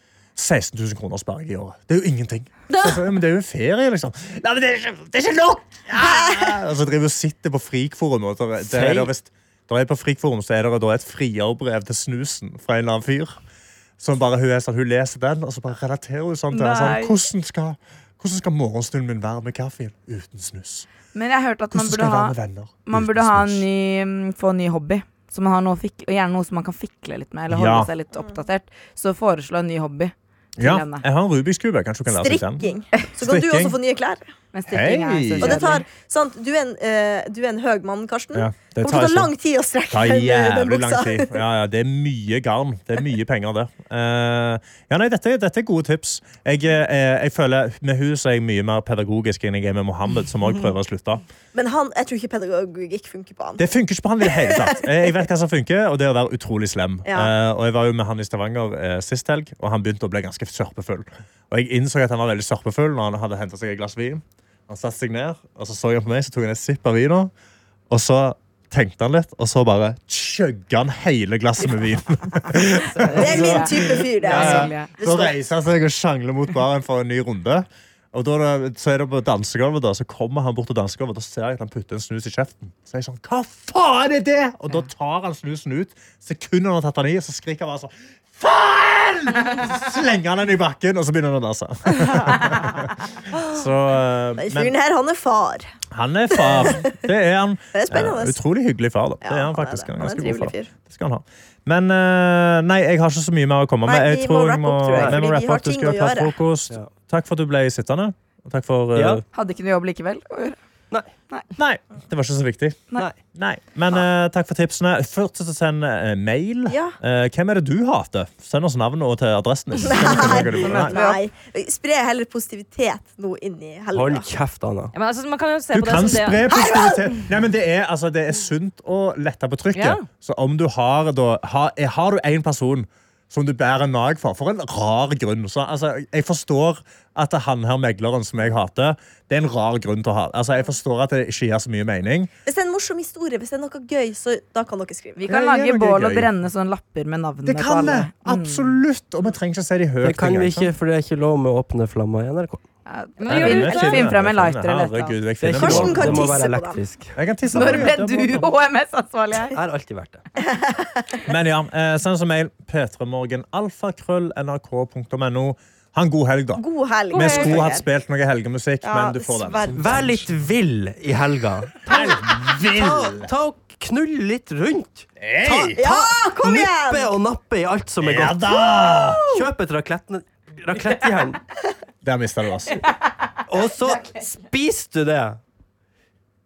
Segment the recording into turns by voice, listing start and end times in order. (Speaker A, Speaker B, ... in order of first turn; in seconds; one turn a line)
Speaker A: 0.4-13.4
Speaker B: 2.7-3.0
Speaker C: 6.0-6.5
Speaker D: 8.6-9.1
Speaker A: 14.0-20.9
Speaker E: 16.5-17.2
Speaker E: 21.1-31.1
Speaker A: 21.7-23.6
Speaker A: 27.5-27.9
Speaker A: 30.6-32.7
Speaker C: 32.1-34.3
Speaker A: 33.2-33.8
Speaker E: 34.5-35.9
Speaker A: 34.7-35.7
Speaker C: 35.4-41.4
Speaker A: 38.3-39.3
Speaker A: 39.9-51.2
Speaker C: 51.5-53.7
Speaker A: 53.6-67.3
Speaker C: 54.2-54.8
Speaker C: 57.1-57.3
Speaker A: 67.9-94.8
Speaker E: 72.7-74.9
Speaker C: 73.1-75.4
Speaker C: 94.4-95.7
Speaker A: 95.9-109.2
Speaker C: 96.3-97.1
Speaker C: 97.7-98.4
Speaker C: 99.2-100.7
Speaker C: 103.9-106.4
Speaker D: 104.9-105.2
Speaker D: 108.9-109.2
Speaker E: 109.3-110.6
Speaker A: 111.6-121.0
Speaker C: 116.7-117.0
Speaker C: 119.8-124.3
Speaker E: 120.4-121.2
Speaker D: 123.9-124.9
Speaker B: 124.9-126.5
Speaker A: 125.7-142.3
Speaker C: 126.5-127.0
Speaker B: 129.7-130.1
Speaker C: 142.4-145.3
Speaker E: 145.2-148.8
Speaker A: 145.2-146.3
Speaker A: 147.4-150.7
Speaker D: 150.0-152.6
Speaker E: 152.9-155.2
Speaker B: 153.2-154.1
Speaker A: 153.3-156.4
Speaker D: 155.4-157.9
Speaker C: 155.5-156.8
Speaker A: 157.2-158.5
Speaker E: 157.5-159.6
Speaker D: 159.5-160.2
Speaker C: 160.5-161.2
Speaker A: 161.2-170.3
Speaker C: 166.6-167.9
Speaker B: 167.1-167.6
Speaker C: 168.8-170.1
Speaker D: 169.7-178.6
Speaker A: 171.9-173.3
Speaker A: 175.2-175.8
Speaker C: 175.8-177.1
Speaker A: 178.0-179.3
Speaker D: 179.2-181.4
Speaker A: 182.0-182.9
Speaker D: 183.5-185.4